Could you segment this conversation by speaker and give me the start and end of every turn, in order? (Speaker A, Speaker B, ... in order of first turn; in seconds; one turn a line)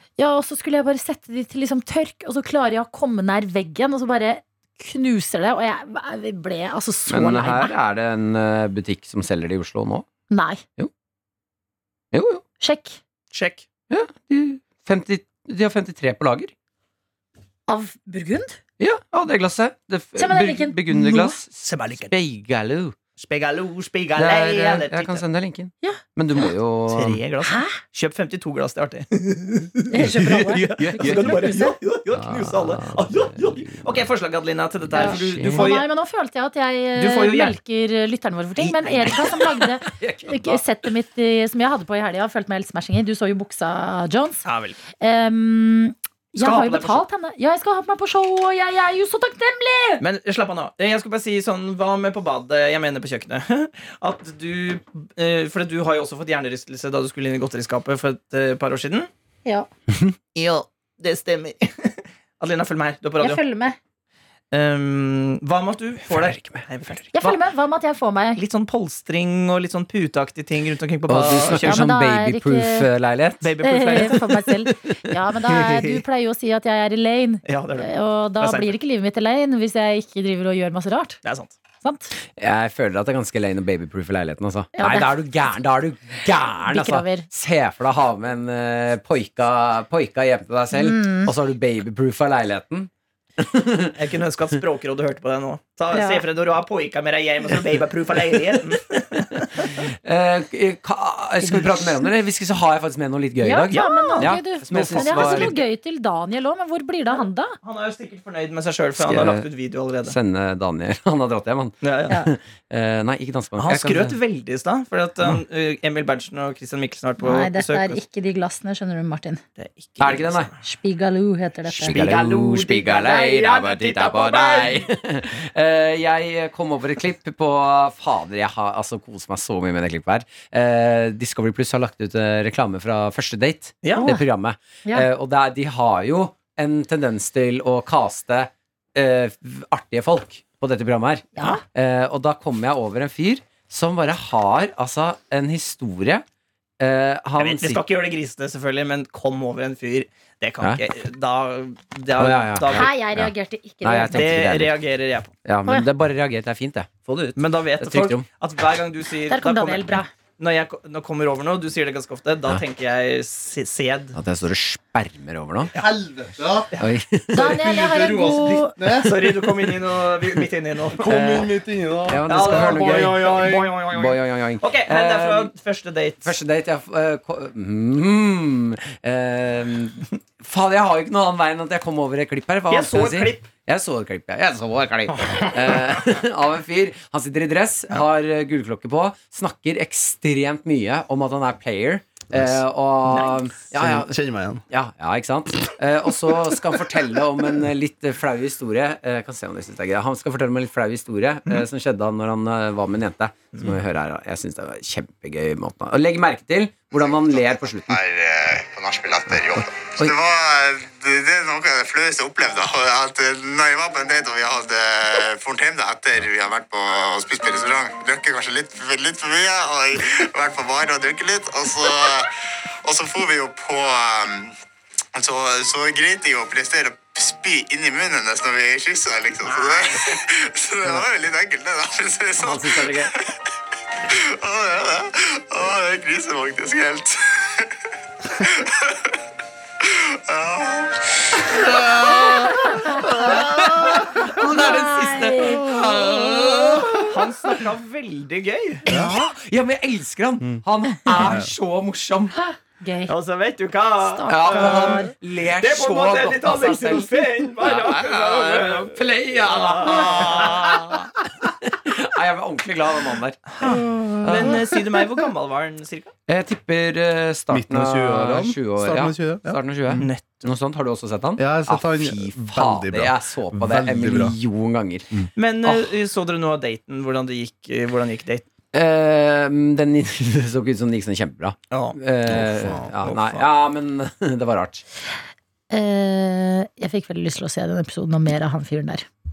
Speaker A: 0.2-7.7
Speaker B: 7.1-10.1
Speaker A: 10.3-10.6
Speaker B: 12.1-12.4
Speaker A: 12.6-13.0
Speaker C: 13.3-13.6
Speaker B: 13.9-16.5
Speaker A: 17.7-18.6
Speaker B: 18.8-22.9
Speaker A: 20.1-21.4
Speaker C: 20.9-22.1
Speaker C: 23.2-25.2
Speaker B: 24.1-27.2
Speaker C: 26.4-35.9
Speaker A: 27.4-27.8
Speaker A: 29.9-31.8
Speaker B: 30.0-31.4
Speaker B: 32.1-34.1
Speaker B: 34.9-35.7
Speaker A: 34.9-44.4
Speaker C: 36.9-37.5
Speaker C: 38.6-39.6
Speaker B: 40.0-40.6
Speaker C: 44.4-44.8
Speaker A: 45.0-50.0
Speaker C: 46.4-47.0
Speaker C: 50.0-59.1
Speaker C: 60.3-63.4
Speaker A: 63.2-63.8
Speaker C: 64.5-67.4
Speaker B: 66.1-66.7
Speaker A: 67.1-68.4
Speaker C: 68.3-71.8
Speaker B: 71.1-73.5
Speaker A: 71.6-72.9
Speaker C: 73.4-74.3
Speaker A: 73.6-81.2
Speaker B: 74.4-75.1
Speaker C: 75.4-76.0
Speaker C: 77.5-78.7
Speaker C: 81.2-81.5
Speaker A: 81.8-82.1
Speaker B: 82.4-94.0
Speaker A: 84.8-85.1
Speaker A: 86.6-87.3
Speaker A: 90.7-91.3
Speaker C: 94.0-99.8
Speaker A: 95.9-96.2
Speaker B: 99.7-105.6
Speaker A: 101.4-102.0
Speaker A: 103.4-107.5
Speaker C: 103.7-105.6
Speaker C: 107.1-110.2
Speaker B: 109.0-109.5
Speaker B: 110.0-114.2
Speaker C: 111.8-112.2
Speaker C: 113.6-118.0
Speaker A: 117.2-119.4
Speaker C: 119.6-120.5
Speaker B: 120.0-120.5
Speaker A: 120.6-122.0
Speaker B: 121.7-146.2
Speaker C: 121.8-124.8
Speaker C: 133.8-134.1
Speaker A: 133.9-134.2
Speaker A: 141.3-141.6
Speaker B: 146.8-147.8
Speaker C: 147.4-152.9
Speaker B: 152.2-154.8
Speaker A: 152.7-154.3
Speaker C: 154.1-155.3
Speaker B: 155.4-158.2
Speaker C: 157.3-164.2
Speaker A: 159.3-160.1
Speaker B: 164.1-165.7
Speaker D: 165.7-166.7
Speaker B: 166.8-167.6
Speaker A: 167.3-168.8
Speaker D: 167.3-169.7
Speaker C: 168.9-171.1
Speaker D: 171.0-173.7
Speaker B: 171.0-175.5
Speaker C: 172.3-176.3
Speaker B: 176.2-194.2
Speaker C: 182.7-183.5
Speaker D: 192.3-192.6
Speaker C: 193.1-193.4
Speaker D: 193.7-194.6
Speaker B: 194.7-208.0
Speaker E: 207.9-222.3
Speaker B: 209.3-210.1
Speaker E: 222.8-224.5
Speaker E: 225.1-233.3
Speaker B: 232.4-233.1
Speaker E: 234.0-237.7
Speaker E: 238.4-239.1
Speaker E: 239.8-242.3
Speaker B: 241.5-247.2
Speaker A: 242.3-243.0
Speaker A: 244.2-245.8
Speaker C: 246.7-248.8
Speaker D: 248.9-249.2
Speaker B: 248.9-252.3
Speaker D: 251.2-251.5
Speaker A: 252.3-253.1
Speaker C: 253.1-261.0
Speaker A: 254.0-255.1
Speaker B: 254.3-263.5
Speaker C: 263.5-266.1
Speaker D: 263.6-264.8
Speaker B: 264.2-264.6
Speaker B: 266.3-275.9
Speaker D: 267.5-270.1
Speaker C: 270.0-270.5
Speaker D: 271.4-274.4
Speaker C: 275.4-278.4
Speaker B: 278.7-284.8
Speaker C: 281.7-282.0
Speaker D: 282.2-282.9
Speaker C: 283.0-283.4
Speaker A: 285.7-289.1